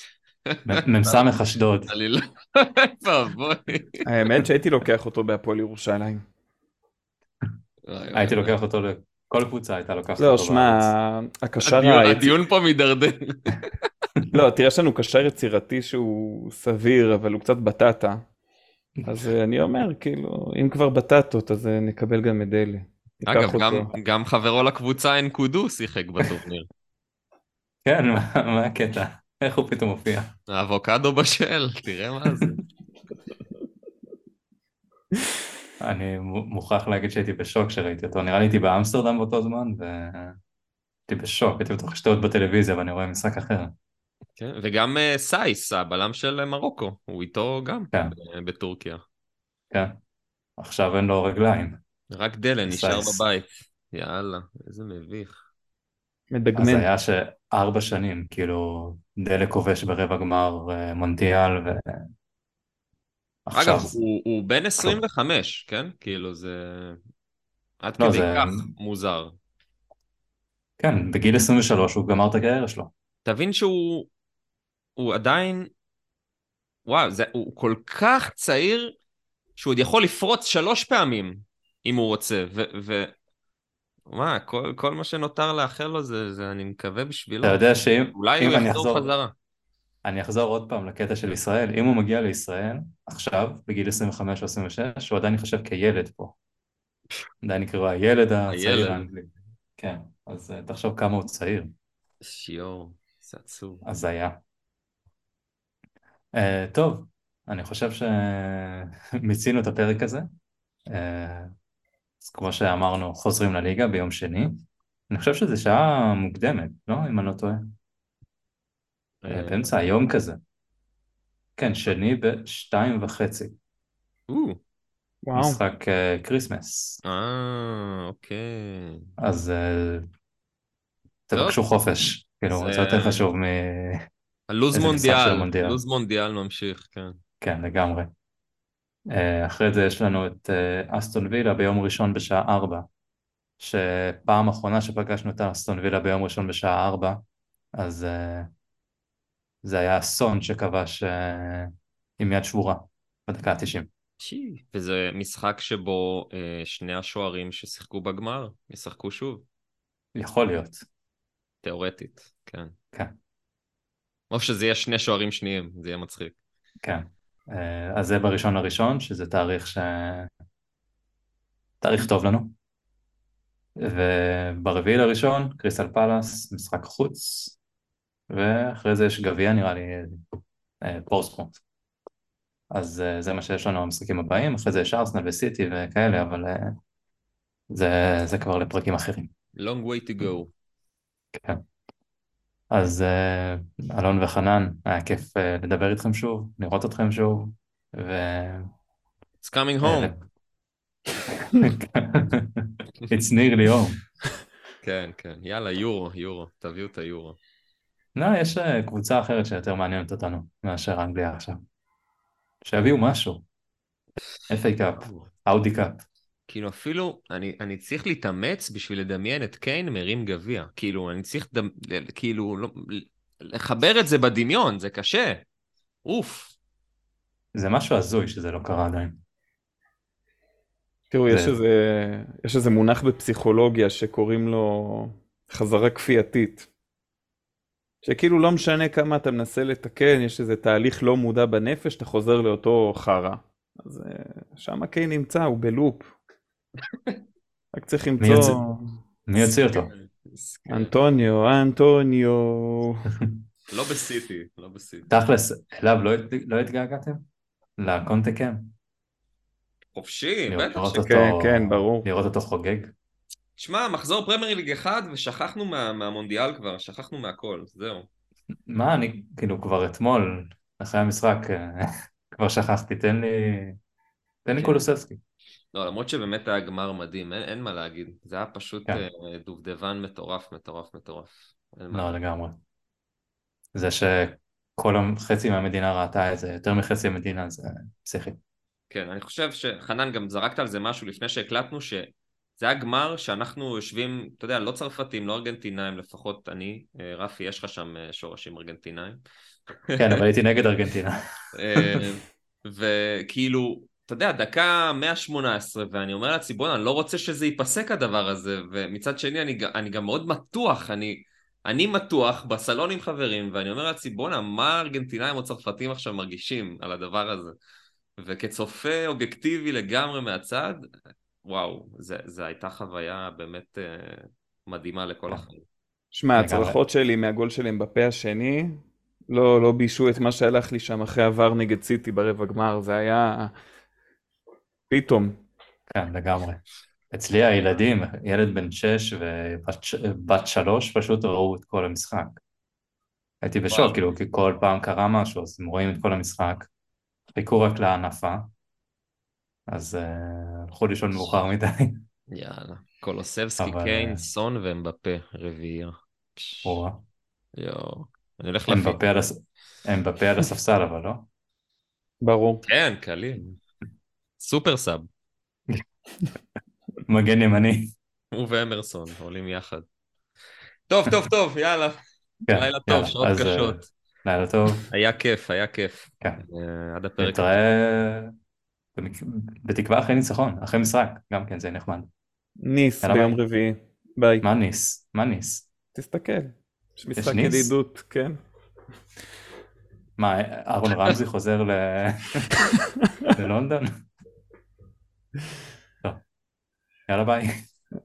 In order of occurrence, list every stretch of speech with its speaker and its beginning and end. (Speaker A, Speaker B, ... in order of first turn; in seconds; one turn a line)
Speaker A: 0.5-1.3
Speaker B: 0.7-1.9
Speaker A: 1.9-4.1
Speaker C: 4.1-6.2
Speaker A: 7.9-8.5
Speaker B: 8.1-10.9
Speaker C: 10.2-12.3
Speaker A: 11.6-13.9
Speaker C: 14.3-18.2
Speaker C: 19.1-23.9
Speaker A: 23.3-26.7
Speaker B: 27.9-30.3
Speaker A: 30.5-32.6
Speaker B: 35.8-40.4
Speaker B: 41.1-43.7
Speaker A: 44.4-49.0
Speaker B: 49.7-50.0
Speaker B: 50.6-51.8
Speaker A: 52.1-55.4
Speaker B: 52.6-53.2
Speaker C: 56.3-56.9
Speaker B: 56.6-62.0
Speaker B: 63.5-64.0
Speaker A: 63.5-67.0
Speaker A: 67.8-69.4
Speaker B: 68.0-68.7
Speaker B: 70.8-72.9
Speaker A: 73.2-74.1
Speaker A: 75.0-75.7
Speaker A: 76.9-79.0
Speaker A: 79.6-83.2
Speaker A: 84.1-87.6
Speaker B: 87.4-89.1
Speaker A: 88.1-89.3
Speaker B: 90.0-96.3
Speaker B: 97.4-101.7
Speaker A: 98.5-99.1
Speaker A: 102.2-103.8
Speaker B: 103.8-104.4
Speaker B: 106.3-110.3
Speaker B: 110.9-111.5
Speaker B: 112.2-117.7
Speaker A: 119.2-119.7
Speaker B: 119.3-120.4
Speaker B: 121.6-123.6
Speaker A: 124.3-124.6
Speaker C: 125.3-125.6
Speaker B: 125.3-127.0
Speaker A: 127.0-129.1
Speaker B: 129.2-130.1
Speaker B: 131.3-134.0
Speaker A: 131.3-131.6
Speaker A: 132.5-133.2
Speaker A: 134.5-137.2
Speaker B: 134.7-135.8
Speaker B: 137.4-138.1
Speaker B: 139.1-142.9
Speaker B: 143.6-147.2
Speaker B: 147.8-148.5
Speaker B: 149.6-153.9
Speaker A: 154.2-159.4
Speaker B: 160.2-160.8
Speaker A: 161.6-162.8
Speaker A: 164.3-166.4
Speaker B: 166.8-170.3
Speaker B: 171.8-172.5
Speaker B: 173.8-177.6
Speaker B: 178.3-180.2
Speaker B: 180.8-181.6
Speaker B: 182.7-186.8
Speaker B: 187.7-189.3
Speaker A: 189.6-190.5
Speaker B: 191.3-191.6
Speaker B: 192.7-198.7
Speaker A: 199.4-200.1
Speaker B: 199.8-200.2
Speaker B: 201.4-204.0
Speaker A: 204.8-207.4
Speaker B: 208.2-211.6
Speaker B: 212.6-213.4
Speaker B: 214.5-216.0
Speaker A: 215.0-215.3
Speaker A: 216.5-225.4
Speaker A: 226.1-226.6
Speaker B: 227.6-229.2
Speaker C: 231.1-236.7
Speaker B: 231.3-231.6
Speaker C: 238.0-246.1
Speaker C: 247.8-249.0
Speaker B: 248.2-248.6
Speaker B: 249.3-249.9
Speaker A: 249.7-250.9
Speaker C: 250.7-253.1
Speaker A: 253.7-255.1
Speaker B: 255.1-257.2
Speaker B: 257.8-258.7
Speaker A: 259.9-261.1
Speaker B: 260.5-262.9
Speaker C: 261.1-262.1
Speaker A: 263.6-268.1
Speaker B: 268.7-273.8
Speaker B: 274.4-275.2
Speaker A: 274.6-274.9
Speaker A: 275.7-282.2
Speaker B: 281.9-282.6
Speaker B: 283.7-288.4
Speaker A: 288.9-299.2
Speaker A: 299.9-300.2
Speaker B: 300.0-301.2
Speaker A: 301.6-317.6
Speaker A: 318.2-320.8
Speaker A: 321.4-325.6
Speaker C: 326.1-333.5
Speaker B: 326.4-326.8
Speaker C: 334.9-335.4
Speaker B: 335.9-342.4
Speaker B: 343.4-346.7
Speaker A: 343.7-344.0
Speaker B: 347.3-348.5
Speaker B: 349.7-352.0
Speaker A: 352.3-356.8
Speaker B: 353.6-354.2
Speaker B: 356.6-357.0
Speaker A: 357.6-359.0
Speaker B: 358.7-361.3
Speaker C: 362.2-362.6
Speaker A: 362.6-363.6
Speaker A: 364.4-365.1
Speaker B: 367.1-367.9
Speaker A: 368.3-369.9
Speaker A: 370.9-372.0
Speaker B: 372.5-374.9
Speaker A: 372.5-373.8
Speaker A: 374.9-377.4
Speaker B: 377.2-378.3
Speaker B: 379.0-382.1
Speaker C: 382.6-384.4
Speaker B: 383.0-383.4
Speaker B: 384.4-385.7
Speaker C: 385.9-388.4
Speaker B: 387.2-387.7
Speaker B: 390.2-392.6
Speaker B: 393.3-393.9
Speaker B: 397.1-397.5